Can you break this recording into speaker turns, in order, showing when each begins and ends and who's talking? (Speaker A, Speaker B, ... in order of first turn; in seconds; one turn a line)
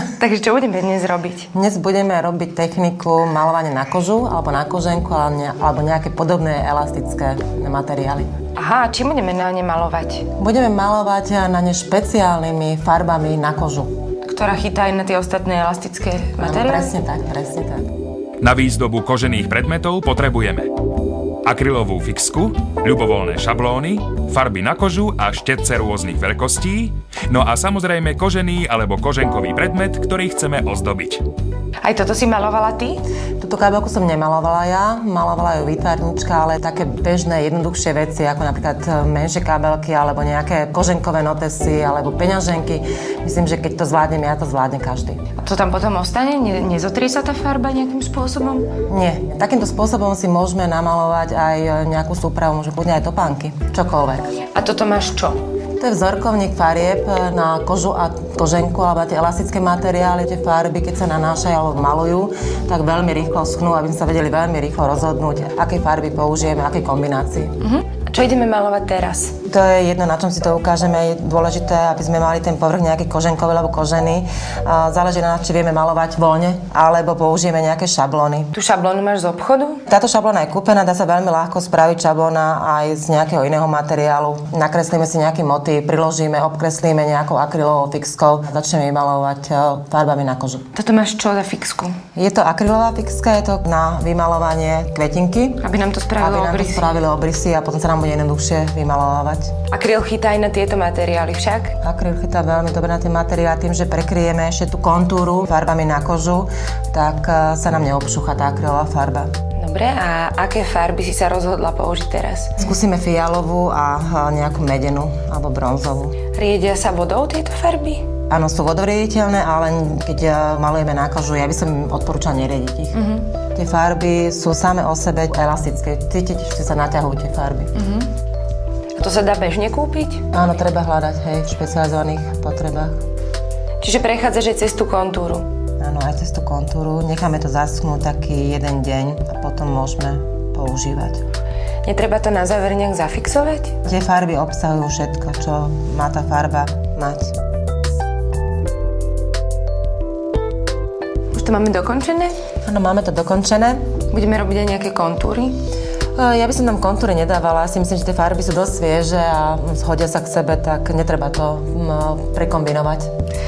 Speaker A: 0.2-1.5
Speaker B: 1.5-8.3
Speaker A: 8.6-10.3
Speaker B: 10.3-13.9
Speaker A: 14.2-16.9
Speaker B: 16.4-17.9
Speaker C: 18.4-20.7
Speaker C: 21.4-31.2
Speaker A: 31.8-33.1
Speaker B: 33.4-45.2
Speaker A: 45.4-48.7
Speaker B: 48.9-54.2
Speaker A: 54.5-55.4
Speaker B: 55.8-67.5
Speaker A: 67.6-69.3
Speaker B: 69.4-78.5
Speaker A: 78.5-79.8
Speaker B: 79.8-90.6
Speaker A: 90.7-92.0
Speaker B: 92.1-95.6
Speaker A: 95.6-96.9
Speaker B: 96.2-99.5
Speaker A: 99.7-101.8
Speaker B: 101.8-109.3
Speaker A: 109.5-112.6
Speaker B: 112.6-116.1
Speaker A: 116.3-118.0
Speaker B: 118.3-122.9
Speaker A: 122.9-123.3
Speaker B: 123.5-127.7
Speaker A: 127.8-128.1
Speaker A: 128.9-130.2
Speaker B: 130.3-132.9
Speaker A: 133.8-135.4
Speaker B: 135.8-141.2
Speaker A: 141.8-143.7
Speaker B: 143.8-147.3
Speaker A: 151.3-152.3
Speaker B: 152.6-153.8
Speaker A: 154.1-155.6
Speaker B: 156.1-163.1